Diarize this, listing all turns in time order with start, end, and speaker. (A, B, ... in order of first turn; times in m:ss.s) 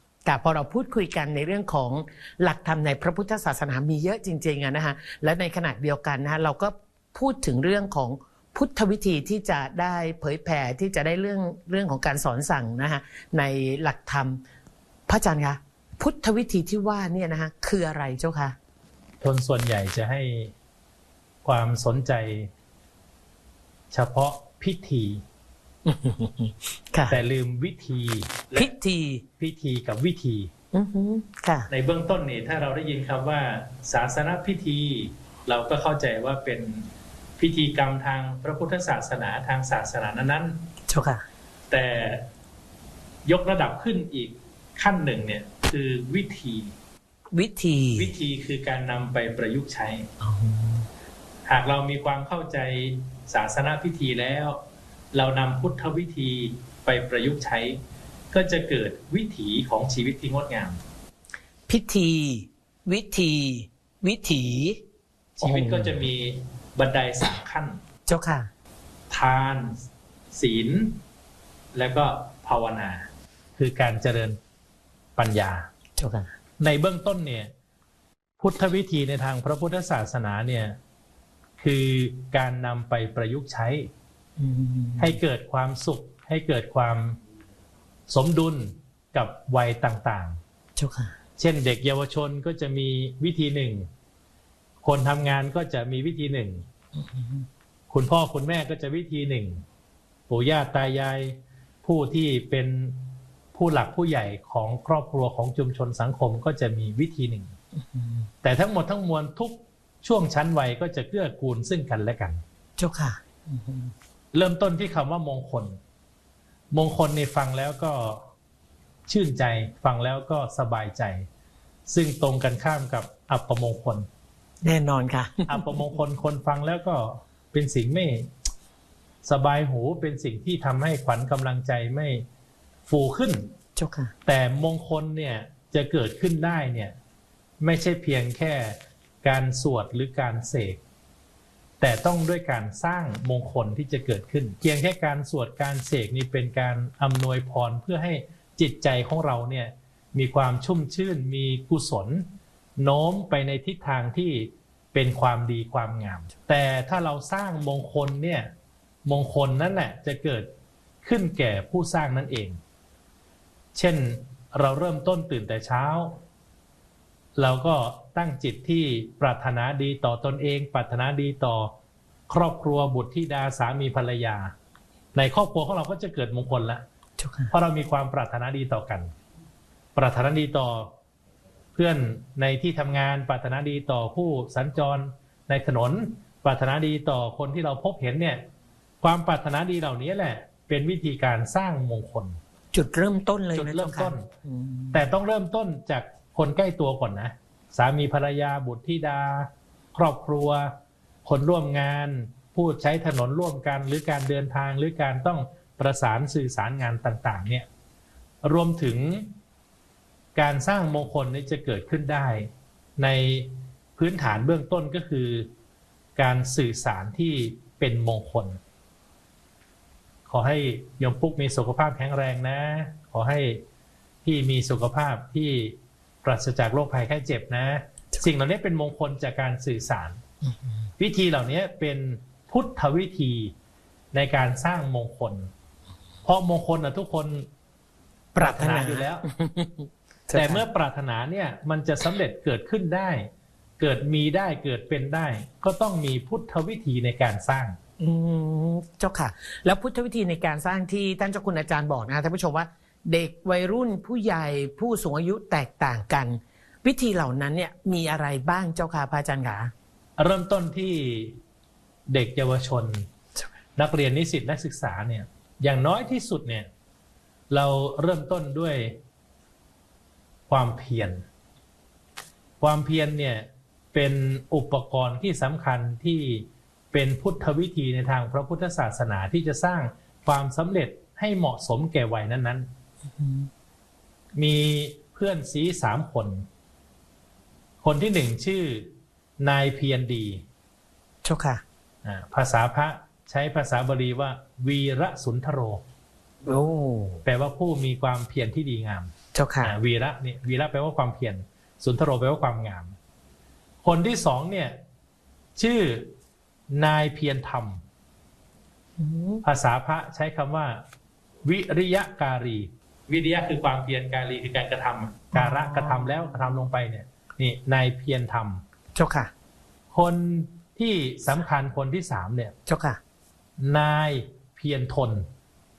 0:00.3-0:14.4 A
0:15.1-0:18.6 A
0:19.2-0:20.5 B
0:21.4-0:22.5 B
0:23.9-0:25.2 B
0:25.9-0:27.2 A
0:27.1-0:28.7 B
0:28.6-0:29.2 A
0:29.4-0:30.5 B
0:30.7-0:31.7 A
0:31.7-0:40.6 B
0:40.9-0:41.3 A
0:41.7-0:42.3 B
0:43.3-0:46.7 B
0:47.3-0:48.1 A
0:48.0-0:50.1 B
0:50.2-0:50.9 A
0:51.5-0:54.6 B
0:55.1-0:57.8 B
0:58.3-1:00.8 B
1:01.7-1:04.8 A
1:05.4-1:07.8 B
1:05.4-1:06.0 A
1:08.1-1:08.5 A
1:09.1-1:11.0 B
1:11.7-1:14.4 B
1:15.2-1:15.7 B
1:16.0-1:16.3 A
1:16.6-1:17.5 B
1:18.4-1:20.8 B
1:21.6-1:23.9 B
1:24.4-1:25.2 A
1:25.0-1:27.2 B
1:28.1-1:30.4 B
1:30.8-1:31.2 A
1:31.4-1:33.9 B
1:34.8-1:36.7 B
1:37.0-1:37.5 A
1:37.9-1:39.6 B
1:40.3-1:47.5 B
1:47.8-1:48.3 A
1:48.4-1:52.4 B
1:52.8-1:53.9 A
1:54.3-1:55.8 B
1:56.7-1:58.3 B
1:59.1-2:01.3 B
2:01.9-2:04.1 B
2:04.6-2:05.8 A
2:05.5-2:08.3 B
2:09.2-2:12.2 B
2:12.9-2:13.5 B
2:13.8-2:14.1 A
2:14.3-2:17.0 B
2:17.6-2:20.8 B
2:21.8-2:38.5 B
2:39.0-2:40.5 B
2:41.0-2:42.6 B
2:43.8-2:46.2 B
2:47.4-2:51.8 B
2:52.3-2:54.5 B
2:55.2-2:56.8 B
2:57.2-2:57.5 A
2:57.5-2:59.1 B
3:00.0-3:00.9 B
3:01.8-3:08.4 B
3:09.0-3:12.4 B
3:12.7-3:15.0 A
3:13.5-3:14.3 B
3:14.9-3:27.7 B
3:28.4-3:29.3 B
3:30.4-3:35.5 B
3:36.2-3:38.6 B
3:40.3-3:43.6 B
3:44.2-3:50.2 B
3:51.0-3:53.5 B
3:54.1-3:55.5 B
3:56.2-3:57.5 B
3:58.4-3:59.3 B
3:58.4-4:00.6 A
4:00.3-4:07.8 B
4:08.0-4:19.7 A
4:20.2-4:21.4 B
4:22.1-4:23.1 B
4:23.8-4:26.7 B
4:27.5-4:29.0 B
4:30.5-4:31.2 B
4:32.6-4:42.7 B
4:43.2-4:43.5 A
4:44.4-4:46.5 B
4:47.8-4:50.4 B
4:51.2-4:51.6 A
4:52.0-4:55.8 B
4:56.4-4:57.2 A
4:57.2-5:03.0 B
4:59.3-4:59.8 A
5:03.8-5:04.8 B
5:05.6-5:06.1 B
5:06.7-5:07.8 B
5:09.0-5:09.4 A
5:09.4-5:10.8 B
5:11.4-5:18.6 B
5:15.3-5:16.6 A
5:19.0-5:19.3 A
5:19.9-5:22.5 B
5:22.7-5:23.0 A
5:23.6-5:25.3 B